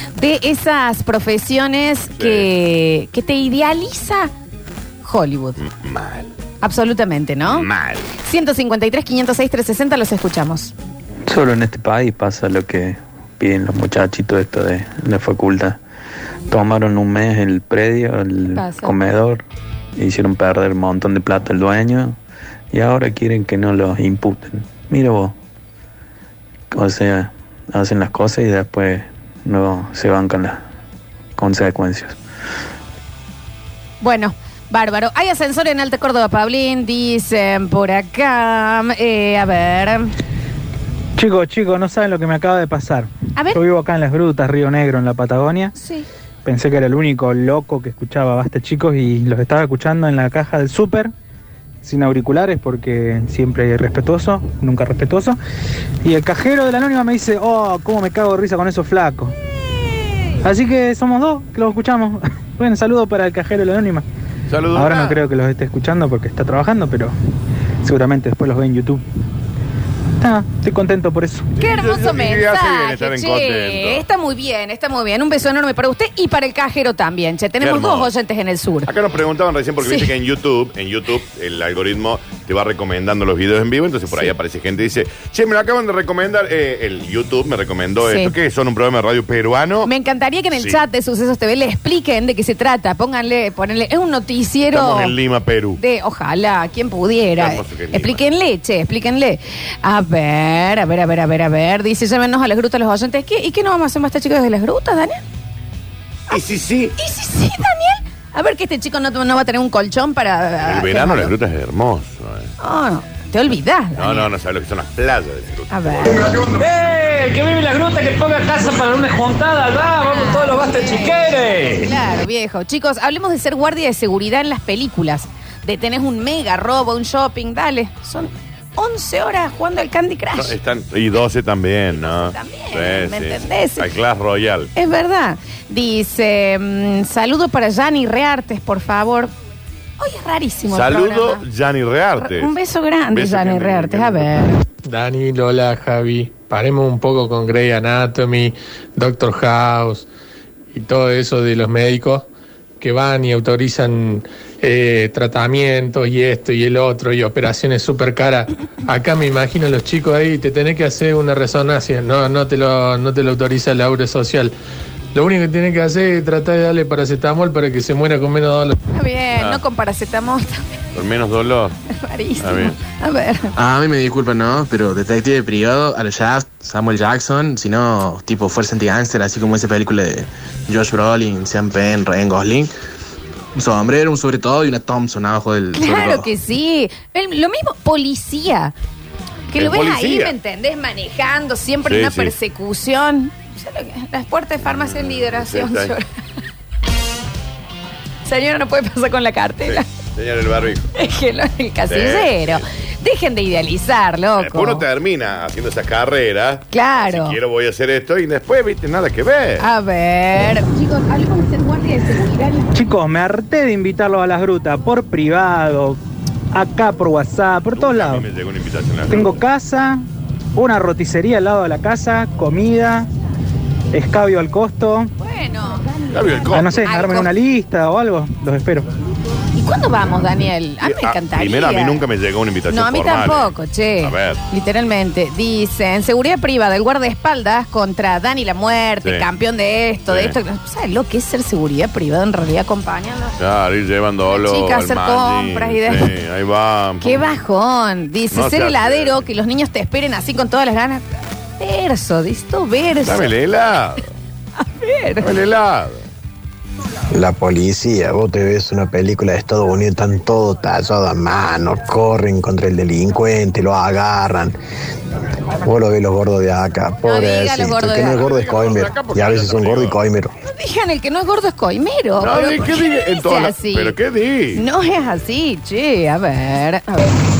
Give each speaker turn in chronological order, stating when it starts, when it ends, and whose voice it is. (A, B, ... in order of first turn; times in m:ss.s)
0:00.2-0:04.3 A
0:02.2-0:02.5 B
0:05.0-0:05.6 A
0:05.6-0:06.3 B
0:06.6-0:07.7 A
0:07.5-0:08.1 B
0:08.2-0:10.7 A
0:11.3-0:15.8 C
0:16.5-0:19.4 C
0:18.5-0:19.0 A
0:20.0-0:22.2 C
0:22.7-0:25.3 C
0:26.7-0:30.6 C
0:31.4-0:32.2 C
0:34.0-0:40.1 A
0:41.2-0:45.7 D
0:45.8-0:46.1 A
0:46.5-0:51.1 D
0:51.8-0:55.4 D
0:56.0-0:59.3 D
1:00.4-1:04.0 D
1:04.5-1:05.2 B
1:04.7-1:07.1 D
1:07.8-1:09.0 D
1:10.2-1:11.5 D
1:11.6-1:14.1 B
1:11.6-1:18.9 A
1:17.6-1:18.1 B
1:18.9-1:29.9 B
1:19.8-1:20.1 A
1:28.0-1:28.3 A
1:29.8-1:35.2 A
1:30.6-1:30.8 B
1:34.7-1:35.8 B
1:35.8-1:45.2 A
1:37.4-1:38.2 B
1:46.3-1:47.0 B
1:47.0-1:51.3 A
1:50.6-1:52.5 B
1:52.6-1:54.3 A
1:54.0-1:56.2 B
1:55.7-1:56.1 A
1:56.3-2:01.9 E
2:00.1-2:10.6 A
2:10.3-2:14.7 B
2:12.0-2:13.9 A
2:14.8-2:19.3 A
2:20.0-2:21.4 A
2:20.7-2:22.5 B
2:22.2-2:24.6 A
2:23.1-2:24.3 B
2:24.8-2:30.1 F
2:30.7-2:32.3 F
2:32.8-2:44.6 F
2:45.1-2:48.8 F
2:48.9-2:50.6 A
2:49.4-2:49.6 B
2:50.9-2:51.8 B
2:52.0-2:53.5 A
2:52.4-2:52.8 B
2:53.6-3:02.7 G
3:03.6-3:06.3 G
3:05.7-3:08.7 A
3:09.5-3:16.1 A
3:09.6-3:10.4 B
3:11.9-3:12.3 B
3:14.8-3:16.0 B
3:18.2-3:19.8 A
3:19.6-3:20.9 B
3:21.0-3:24.9 A
3:21.9-3:22.6 B
3:24.4-3:29.7 B
3:26.7-3:27.4 A
3:29.6-3:32.7 A
3:32.7-3:36.0 D
3:36.5-3:38.3 D
3:37.7-3:39.4 B
3:39.1-3:40.0 D
3:40.6-3:43.1 D
3:43.9-3:45.1 D
3:45.2-3:45.9 A
3:46.1-3:46.9 B
3:46.5-3:48.9 D
3:46.7-3:47.3 A
3:49.6-3:52.0 A
3:50.8-3:54.4 B
3:52.7-4:03.4 A
4:00.1-4:00.4 B
4:03.4-4:07.3 B
4:04.3-4:06.1 A
4:07.0-4:11.0 A
4:08.3-4:09.3 B
4:11.6-4:13.3 A
4:13.0-4:14.1 B
4:14.6-4:15.3 A
4:15.2-4:16.0 B
4:17.1-4:24.6 H
4:25.6-4:30.3 H
4:27.0-4:28.2 A
4:27.8-4:30.0 B
4:30.5-4:34.0 A
4:32.2-4:34.6 B
4:34.5-4:37.1 A